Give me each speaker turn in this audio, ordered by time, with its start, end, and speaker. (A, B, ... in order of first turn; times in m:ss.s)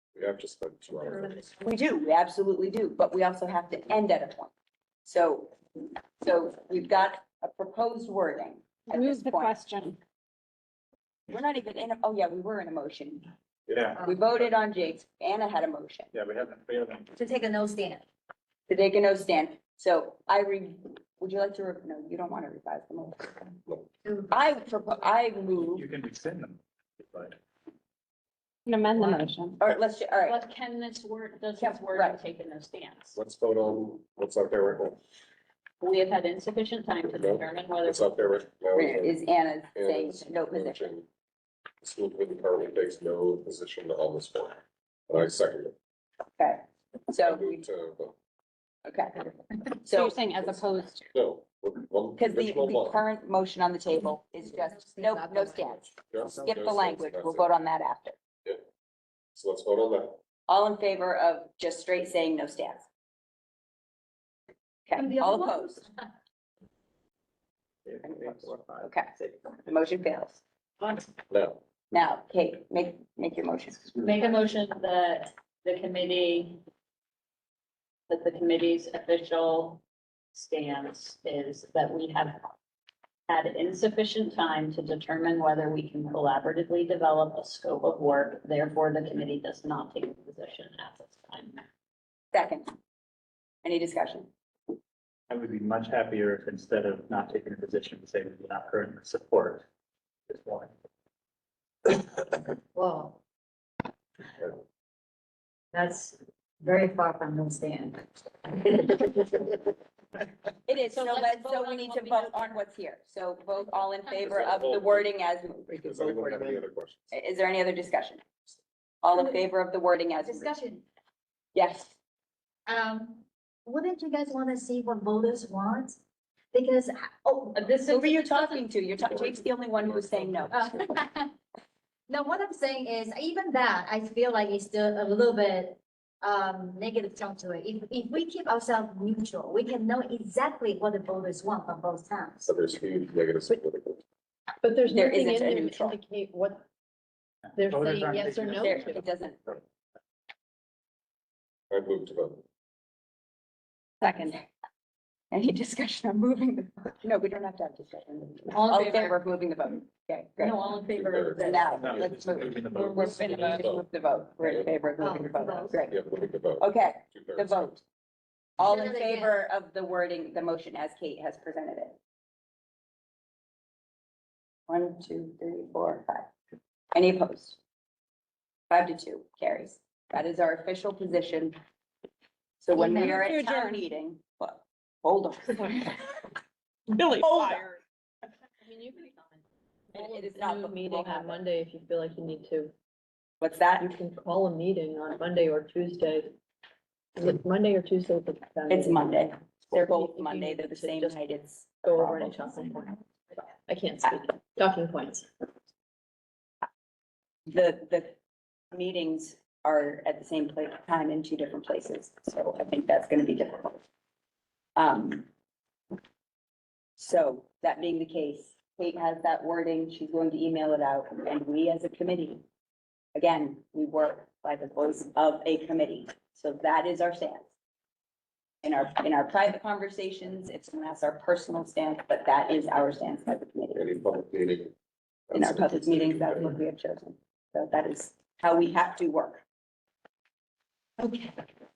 0:00.2-0:01.4 A
0:01.6-0:04.5 B
0:05.0-0:05.5 B
0:06.2-0:09.6 B
0:08.9-0:10.0 C
0:11.3-0:13.2 B
0:13.7-0:14.1 D
0:14.0-0:16.1 B
0:16.1-0:17.1 D
0:17.1-0:18.0 E
0:18.7-0:23.5 B
0:24.0-0:24.3 E
0:24.3-0:25.8 B
0:25.7-0:27.4 D
0:28.7-0:29.5 C
0:29.6-0:30.4 B
0:30.2-0:33.2 F
0:31.6-0:32.2 B
0:33.2-0:35.0 A
0:35.8-0:38.1 F
0:37.1-0:39.2 A
0:38.8-0:40.9 B
0:39.7-0:41.1 A
0:41.8-0:45.7 A
0:46.4-0:47.6 B
0:47.2-0:48.2 A
0:48.8-0:49.3 B
0:49.8-0:50.2 B
0:49.9-0:51.0 C
0:50.3-0:53.0 A
0:52.2-0:58.2 B
0:54.6-0:55.9 E
0:56.1-0:57.5 A
0:59.3-1:00.2 A
1:00.5-1:02.8 B
1:04.9-1:05.8 B
1:05.0-1:06.0 E
1:07.8-1:08.9 D
1:08.0-1:10.4 B
1:11.3-1:11.6 A
1:11.9-1:13.9 B
1:14.0-1:16.6 F
1:18.1-1:19.8 F
1:20.3-1:22.5 F
1:23.3-1:31.6 F
1:32.3-1:32.7 B
1:33.6-1:34.3 B
1:35.3-1:39.6 D
1:40.3-1:40.7 D
1:42.7-1:43.2 E
1:45.7-1:49.6 E
1:50.6-1:56.5 B
1:51.4-1:52.3 E
1:54.2-1:55.1 A
1:55.7-1:57.1 A
1:57.1-1:58.2 B
1:59.0-2:00.5 B
2:00.2-2:00.8 E
2:01.5-2:01.9 B
2:02.6-2:06.0 E
2:06.5-2:08.2 E
2:07.6-2:08.6 F
2:07.9-2:10.8 B
2:09.0-2:10.7 A
2:10.5-2:11.3 E
2:12.1-2:22.5 E
2:22.4-2:24.0 A
2:24.6-2:26.6 G
2:24.8-2:26.0 B
2:27.5-2:29.0 D
2:27.6-2:29.0 G
2:28.6-2:29.4 B
2:31.7-2:32.4 A
2:34.0-2:34.4 B
2:35.3-2:40.6 B
2:38.5-2:39.1 F
2:40.4-2:41.7 F
2:40.9-2:43.8 A
2:41.4-2:46.0 B
2:41.6-2:43.7 D
2:44.4-2:44.7 A
2:45.0-2:45.8 E
2:45.9-2:47.8 A
2:46.6-2:47.8 B
2:48.6-2:52.0 B
2:48.6-2:49.3 E
2:54.7-2:56.3 B
2:56.9-2:57.6 B
2:58.7-3:01.5 B
3:02.6-3:06.2 B
3:02.8-3:03.2 E
3:03.4-3:03.8 C
3:07.1-3:07.7 B
3:08.6-3:09.4 G
3:09.9-3:12.7 G
3:09.9-3:11.4 B
3:13.4-3:13.9 B
3:13.8-3:16.3 G
3:17.2-3:21.2 G
3:18.7-3:22.8 B
3:21.8-3:23.0 G
3:23.7-3:25.3 G
3:27.5-3:28.2 B
3:28.7-3:33.8 B
3:34.8-3:35.3 B
3:37.0-3:42.4 B
3:43.1-3:47.5 B
3:48.6-3:53.9 B
3:53.8-3:54.7 A
3:55.3-3:56.6 A
3:55.3-3:59.4 B
4:01.0-4:01.4 B